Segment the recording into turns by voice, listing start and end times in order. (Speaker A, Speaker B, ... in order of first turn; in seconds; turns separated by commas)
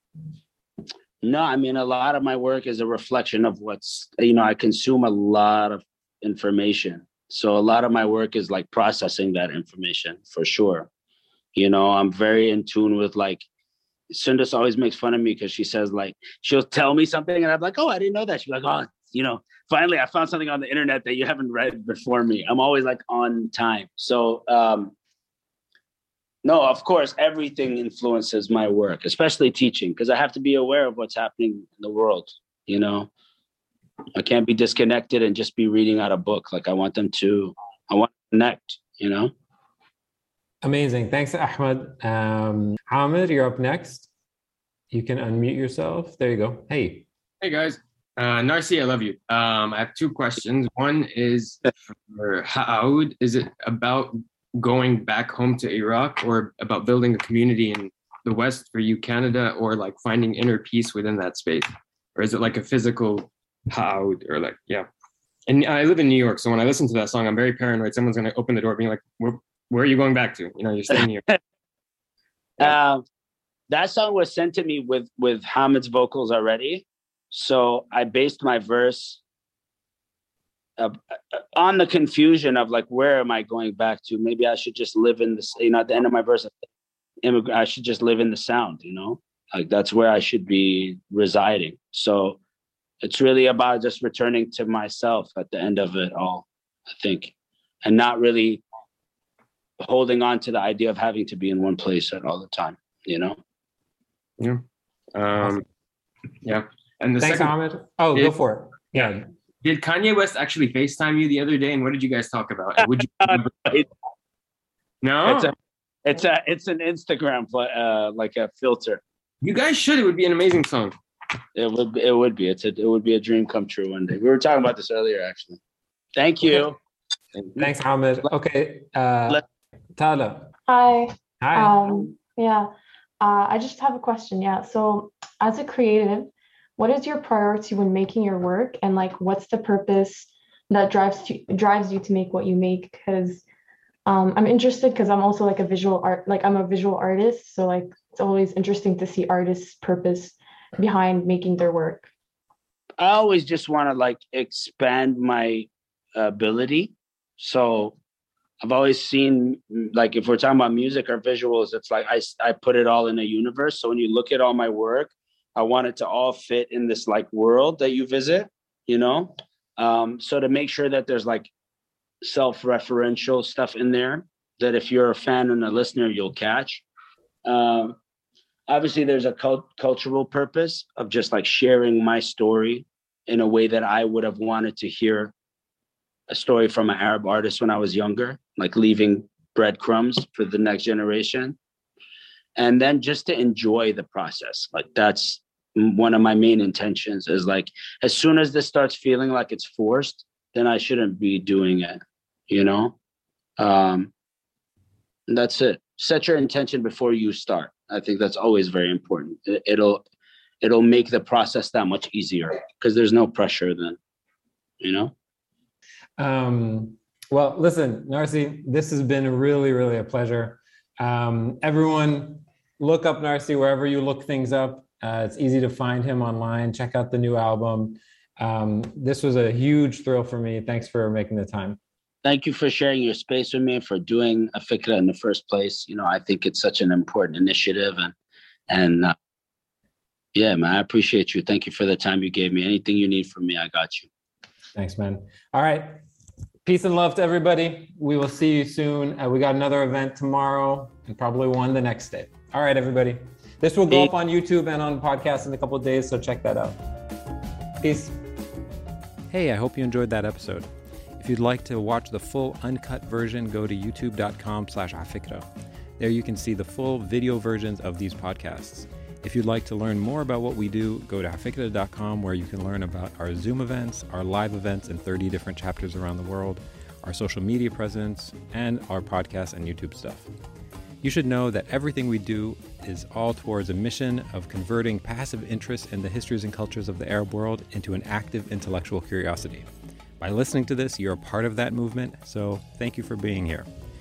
Speaker A: 1.2-10.9, Speaker A: 11.5-13.4, Speaker A: 14.1-24.9, Speaker A: 26.4-33.1, Speaker A: 34.1-39.3, Speaker B: 40.6-44.1, Speaker B: 44.9-47.0, Speaker C: 47.4-64.9, Speaker C: 65.5-71.4, Speaker A: 72.6-73.0, Speaker A: 73.7-79.2, Speaker A: 80.8-86.5, Speaker A: 87.2-92.4, Speaker A: 93.0-98.6, Speaker A: 99.8-103.4, Speaker C: 105.1-105.6, Speaker C: 106.4-107.5, Speaker B: 107.2-109.2, Speaker C: 108.1-108.4, Speaker C: 109.6-113.8, Speaker A: 113.2-113.8, Speaker C: 115.0-115.5, Speaker A: 115.2-119.0, Speaker C: 119.4-120.9, Speaker A: 121.5-125.6, Speaker A: 126.2-126.8, Speaker B: 127.6-129.4, Speaker B: 130.0-130.5, Speaker D: 130.7-143.4, Speaker B: 131.4-131.8, Speaker D: 144.1-152.1, Speaker A: 153.0-158.0, Speaker A: 158.6-171.5, Speaker A: 172.2-176.8, Speaker A: 177.4-178.0, Speaker A: 178.7-185.3, Speaker A: 186.3-191.6, Speaker A: 192.6-202.9, Speaker A: 203.6-204.1, Speaker A: 205.3-210.0, Speaker A: 210.6-214.0, Speaker A: 214.8-215.1, Speaker B: 216.2-231.8, Speaker A: 232.2-238.1, Speaker A: 238.7-239.1, Speaker A: 240.3-244.1, Speaker B: 244.7-246.0, Speaker B: 246.6-256.8, Speaker B: 257.8-258.1, Speaker B: 259.3-265.4, Speaker B: 266.0-280.3, Speaker B: 281.0-289.7, Speaker B: 290.2-293.7